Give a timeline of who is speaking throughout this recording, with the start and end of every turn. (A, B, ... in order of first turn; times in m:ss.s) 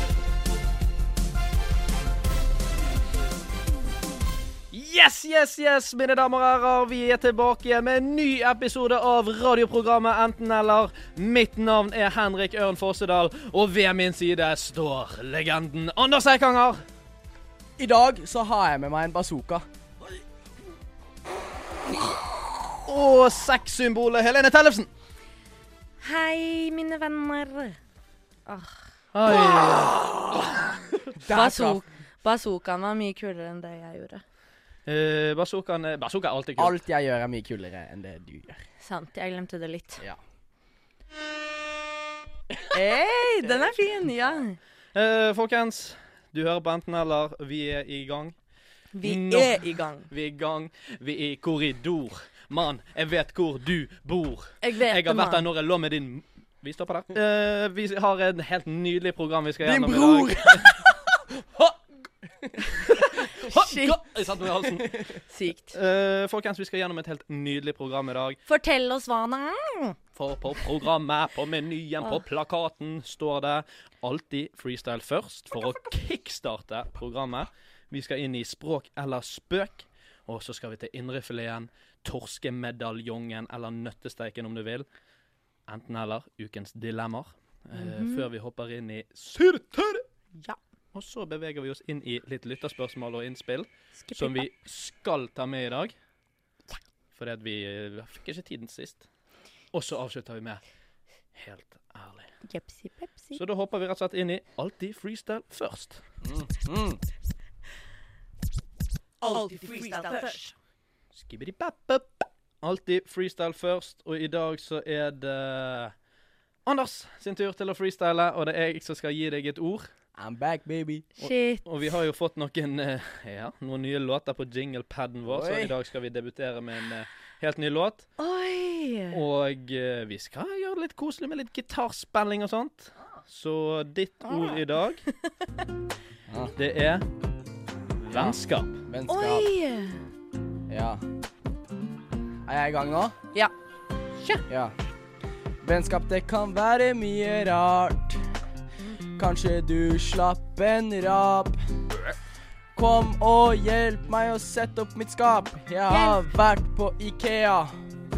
0:04.7-0:16.8 A
0:17.8-0:19.6 B
0:22.8-0:24.9 A
0:26.0-0:27.8 C
0:28.5-0:29.8 C
0:29.1-0:31.0 A
0:31.2-0:31.8 B
0:31.3-0:34.2 C
0:34.9-0:36.8 A
0:36.6-0:38.6 B
0:38.8-0:40.0 C
0:42.5-0:42.8 B
0:42.7-0:44.6 C
0:44.9-0:48.4 A
0:48.9-0:50.1 C
0:49.0-1:00.8 A
0:54.6-0:55.4 C
0:59.6-1:01.7 B
1:02.8-1:08.4 A
1:03.3-1:04.0 C
1:05.3-1:05.8 C
1:08.5-1:10.0 C
1:10.1-1:24.9 A
1:25.7-1:30.0 A
1:27.7-1:28.3 C
1:30.9-1:35.9 A
1:34.0-1:34.5 C
1:37.1-1:39.1 A
1:39.7-1:40.6 A
1:41.3-1:42.3 A
1:42.4-1:43.4 C
1:43.3-1:46.0 A
1:46.2-1:47.0 B
1:49.2-1:50.5 C
1:51.1-1:55.9 A
1:56.7-1:59.9 A
2:00.2-2:01.1 B
2:01.2-2:01.7 C
2:01.2-2:08.1 A
2:05.3-2:05.7 B
2:08.2-2:09.2 C
2:09.1-2:15.1 A
2:14.2-2:15.3 C
2:16.3-2:16.6 B
2:16.6-2:17.1 A
2:18.0-2:18.8 A
2:18.1-2:19.5 B
2:19.1-2:20.0 C
2:20.7-2:21.0 B
2:22.4-2:23.2 B
2:24.5-2:24.8 B
2:25.6-2:28.3 B
2:29.2-2:31.7 B
2:32.8-2:37.8 B
2:35.9-2:36.2 C